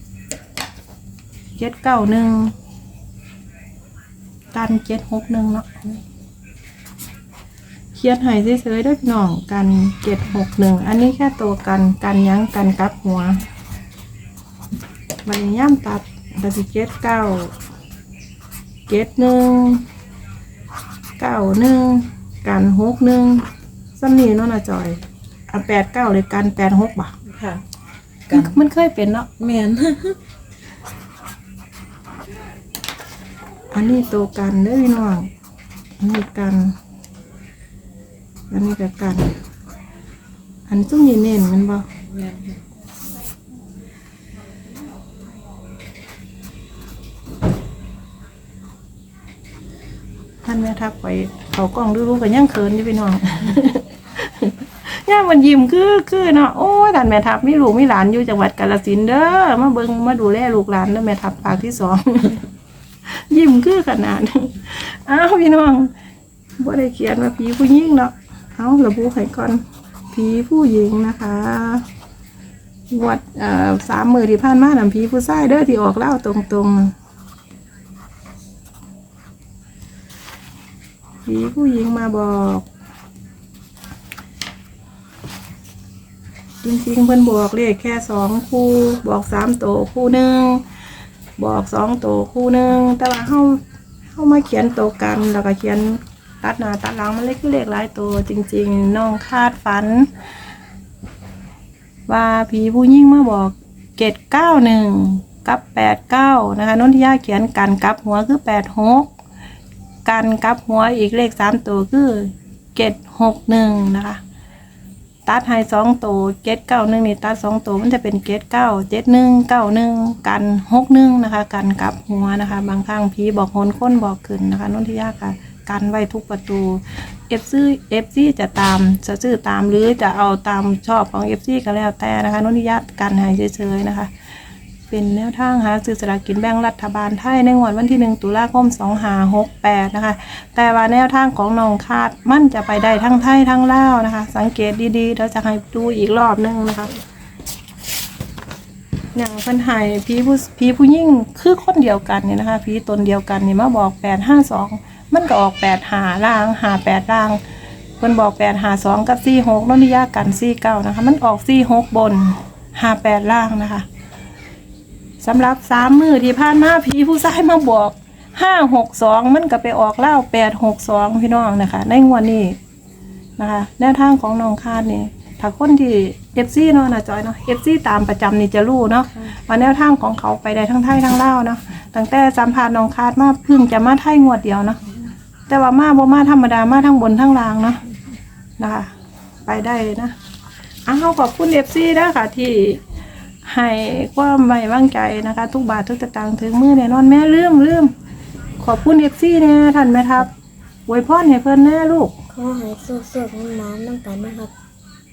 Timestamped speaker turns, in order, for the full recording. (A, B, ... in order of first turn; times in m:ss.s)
0:01.6-0:02.5 A
0:04.5-0:05.8 A
0:08.0-0:13.4 A
0:15.2-0:17.5 A
0:18.9-0:19.8 A
0:21.2-0:27.2 A
0:27.3-0:27.6 B
0:28.3-0:28.6 B
0:28.3-0:29.3 A
0:29.4-0:30.2 B
0:33.7-0:35.3 A
0:36.0-0:36.8 A
0:38.5-0:39.4 A
0:40.7-0:41.9 A
0:42.1-0:42.6 B
0:50.4-1:02.4 A
1:03.1-1:05.9 A
1:06.6-1:11.9 A
1:12.9-1:16.9 A
1:21.2-1:22.7 A
1:26.6-1:30.6 A
1:31.4-1:33.6 A
1:34.1-1:40.1 A
1:42.1-1:49.1 A
1:50.0-1:54.2 A
1:55.2-2:14.1 A
2:14.9-2:27.0 A
2:29.2-2:37.4 A
2:38.0-2:43.9 A
2:45.2-2:52.6 A
2:53.4-3:04.8 A
3:05.5-3:07.8 A
3:08.6-3:08.9 A
3:09.5-3:10.1 A
3:10.9-3:12.8 A
3:13.4-3:17.9 A
3:18.6-3:20.3 A
3:20.9-3:22.1 A
3:22.3-3:24.5 C